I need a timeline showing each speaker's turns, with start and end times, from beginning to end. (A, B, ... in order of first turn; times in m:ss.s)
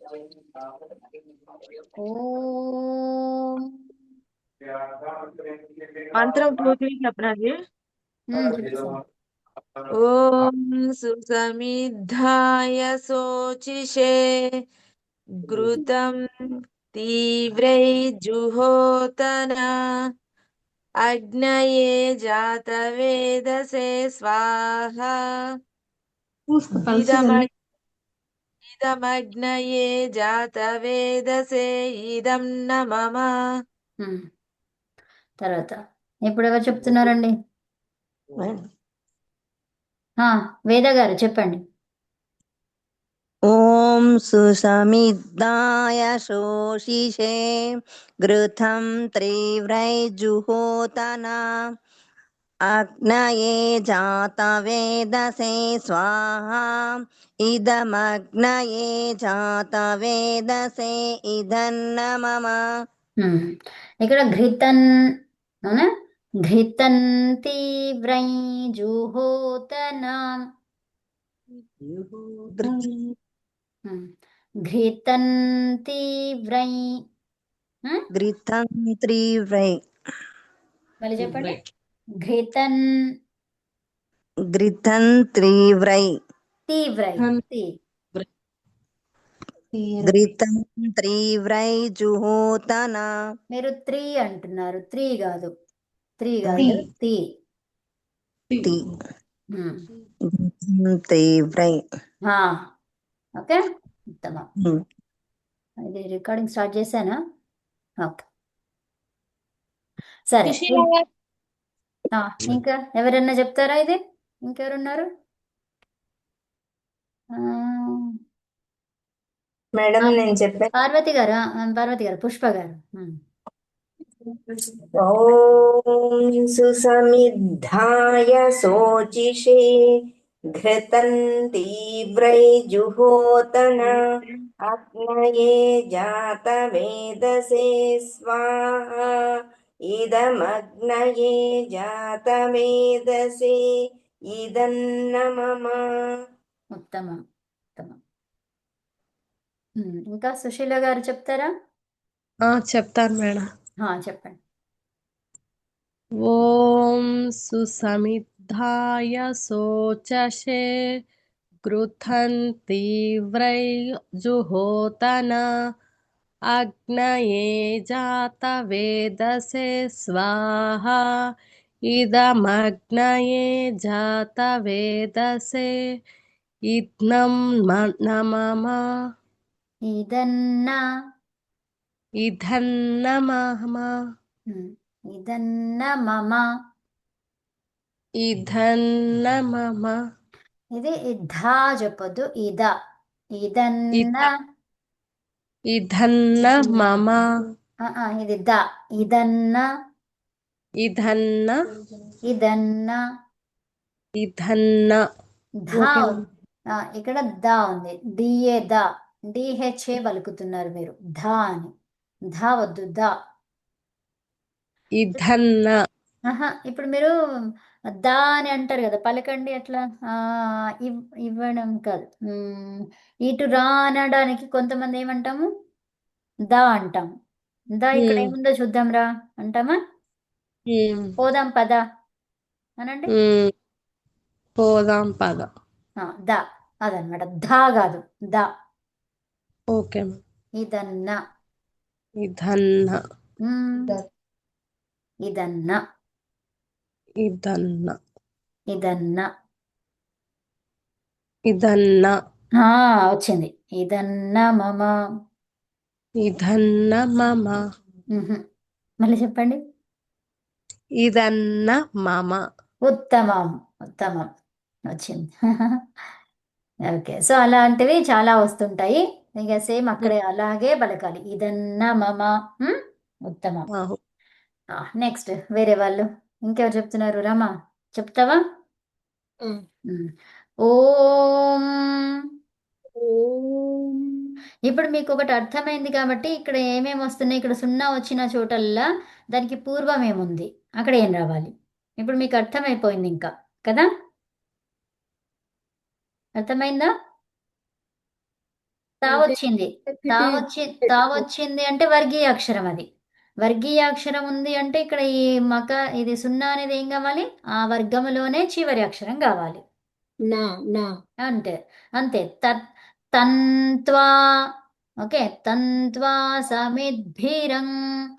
0:02.0-0:03.7 A
0:06.1-0:07.5 B
0:08.3-0:09.0 A
0:09.9-0:14.2 B
0:15.4-0:16.2 B
0:16.9-0:19.7 B
0:21.0-0:25.2 B
0:26.5-0:27.5 C
0:26.8-0:27.5 B
0:28.7-0:33.3 B
0:35.4-0:37.3 A
0:40.2-0:41.6 A
0:43.5-0:47.4 D
0:48.2-0:51.4 D
0:52.7-0:56.9 D
0:57.5-1:02.6 D
1:03.2-1:04.8 A
1:06.5-1:10.2 A
1:11.8-1:12.8 C
1:12.6-1:13.0 D
1:14.7-1:16.8 A
1:18.1-1:19.8 D
1:21.0-1:21.6 A
1:22.2-1:22.8 A
1:24.5-1:26.1 D
1:26.7-1:27.7 A
1:29.7-1:30.2 C
1:30.0-1:33.1 D
1:33.5-1:35.5 A
1:36.2-1:37.2 A
1:38.5-1:38.8 C
1:38.6-1:38.9 D
1:39.5-1:39.8 A
1:40.3-1:41.8 D
1:42.3-1:42.6 A
1:43.4-1:44.5 A
1:45.8-1:47.2 A
1:50.3-1:50.9 A
1:50.5-1:51.0 C
1:52.1-1:55.1 A
1:57.4-1:58.1 A
1:59.8-2:00.7 E
2:00.8-2:03.2 A
2:05.0-2:05.9 E
2:06.5-2:09.7 E
2:10.6-2:14.0 E
2:14.7-2:19.1 E
2:19.9-2:23.6 E
2:24.3-2:25.8 E
2:26.8-2:27.2 A
2:29.8-2:31.5 A
2:32.5-2:33.4 C
2:33.8-2:34.4 A
2:36.2-2:40.6 C
2:41.7-2:45.4 C
2:46.5-2:51.0 C
2:51.9-2:55.7 C
2:56.7-2:58.8 C
2:59.9-3:00.8 A
3:02.2-3:03.9 C
3:04.5-3:06.4 A
3:08.2-3:10.0 C
3:10.8-3:12.7 A
3:13.4-3:14.3 A
3:14.0-3:14.3 C
3:15.7-3:17.2 C
3:16.4-3:16.7 A
3:17.8-3:19.6 A
3:20.8-3:21.6 C
3:22.3-3:23.0 A
3:24.2-3:25.0 C
3:25.7-3:26.2 A
3:25.8-3:26.2 C
3:27.0-3:31.7 A
3:32.3-3:33.1 A
3:35.0-3:35.8 C
3:36.3-3:37.1 A
3:38.0-3:45.4 A
3:46.5-3:47.1 A
3:47.8-3:49.8 A
3:48.0-3:48.3 C
3:50.7-3:51.2 C
3:51.2-3:51.8 A
3:52.8-3:53.1 A
3:53.2-3:53.5 C
3:54.6-3:55.5 C
3:56.0-3:58.5 A
3:59.7-4:00.2 C
4:00.6-4:01.2 A
4:02.2-4:03.0 C
4:03.4-4:03.9 A
4:05.3-4:05.8 A
4:07.2-4:08.0 C
4:08.7-4:09.3 A
4:11.5-4:12.2 C
4:12.6-4:14.9 A
4:16.2-4:17.6 C
4:18.1-4:18.4 A
4:19.0-4:19.6 A
4:21.0-4:22.4 C
4:22.9-4:24.3 A
4:24.9-4:25.8 A
4:26.9-4:33.7 A
4:34.8-4:38.4 A
4:40.6-4:41.7 A
4:43.0-4:44.2 F
4:44.7-4:53.9 A
4:56.4-4:56.9 A
4:59.0-5:02.9 A
4:59.1-5:01.2 F
5:03.4-5:09.6 A
5:10.3-5:10.9 F
5:11.2-5:12.6 A
5:13.2-5:14.1 A
5:15.0-5:17.7 A